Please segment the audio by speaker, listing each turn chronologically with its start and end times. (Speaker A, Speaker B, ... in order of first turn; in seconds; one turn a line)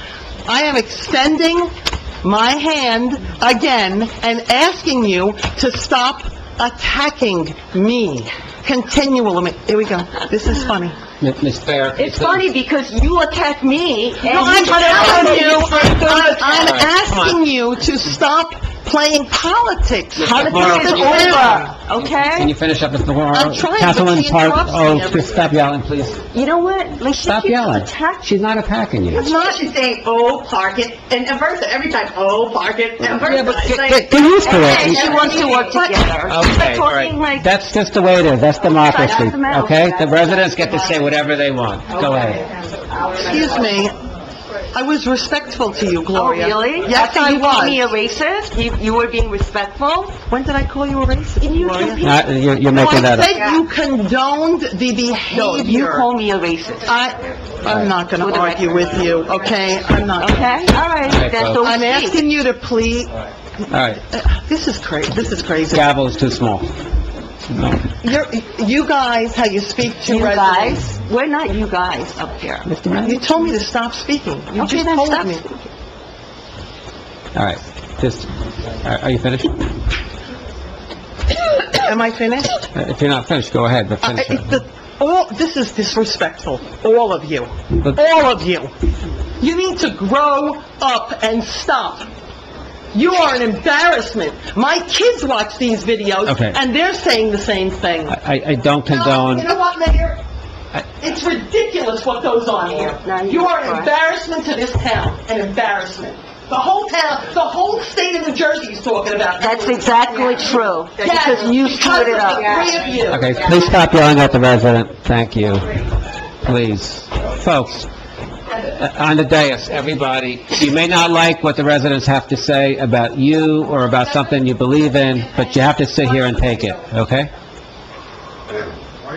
Speaker A: 0.5-11.0
Speaker B: 11.2-12.5
Speaker C: 12.0-16.7
Speaker A: 14.2-21.7
Speaker B: 15.7-16.1
Speaker B: 16.6-17.4
Speaker C: 20.2-22.5
Speaker B: 20.3-21.4
Speaker B: 22.3-26.2
Speaker A: 23.3-25.5
Speaker C: 26.3-28.3
Speaker B: 27.2-29.2
Speaker A: 29.1-29.6
Speaker D: 29.2-35.6
Speaker B: 33.1-35.1
Speaker C: 34.4-37.5
Speaker A: 34.9-36.1
Speaker B: 36.3-42.4
Speaker C: 38.6-40.7
Speaker A: 43.1-44.0
Speaker A: 44.7-47.8
Speaker C: 46.1-50.2
Speaker A: 50.2-52.0
Speaker C: 51.4-53.6
Speaker B: 52.0-53.3
Speaker A: 52.7-56.1
Speaker C: 55.3-56.9
Speaker A: 56.8-60.5
Speaker C: 58.2-58.8
Speaker C: 60.2-62.2
Speaker B: 61.1-61.6
Speaker A: 61.6-63.1
Speaker B: 63.7-64.0
Speaker A: 63.7-65.9
Speaker B: 65.7-66.7
Speaker B: 67.5-67.8
Speaker A: 68.0-70.9
Speaker C: 70.0-72.7
Speaker B: 72.7-73.2
Speaker A: 73.0-75.4
Speaker C: 74.5-75.5
Speaker B: 77.3-78.3
Speaker B: 78.8-79.6
Speaker A: 81.4-82.6
Speaker B: 82.7-84.4
Speaker A: 84.0-88.7
Speaker A: 89.4-92.1
Speaker A: 92.9-98.2
Speaker B: 96.2-96.6
Speaker B: 98.1-99.5
Speaker A: 98.8-100.2
Speaker A: 101.0-113.5
Speaker C: 103.0-103.9
Speaker C: 109.4-112.8
Speaker B: 113.1-115.8
Speaker B: 116.4-117.9
Speaker B: 118.7-127.3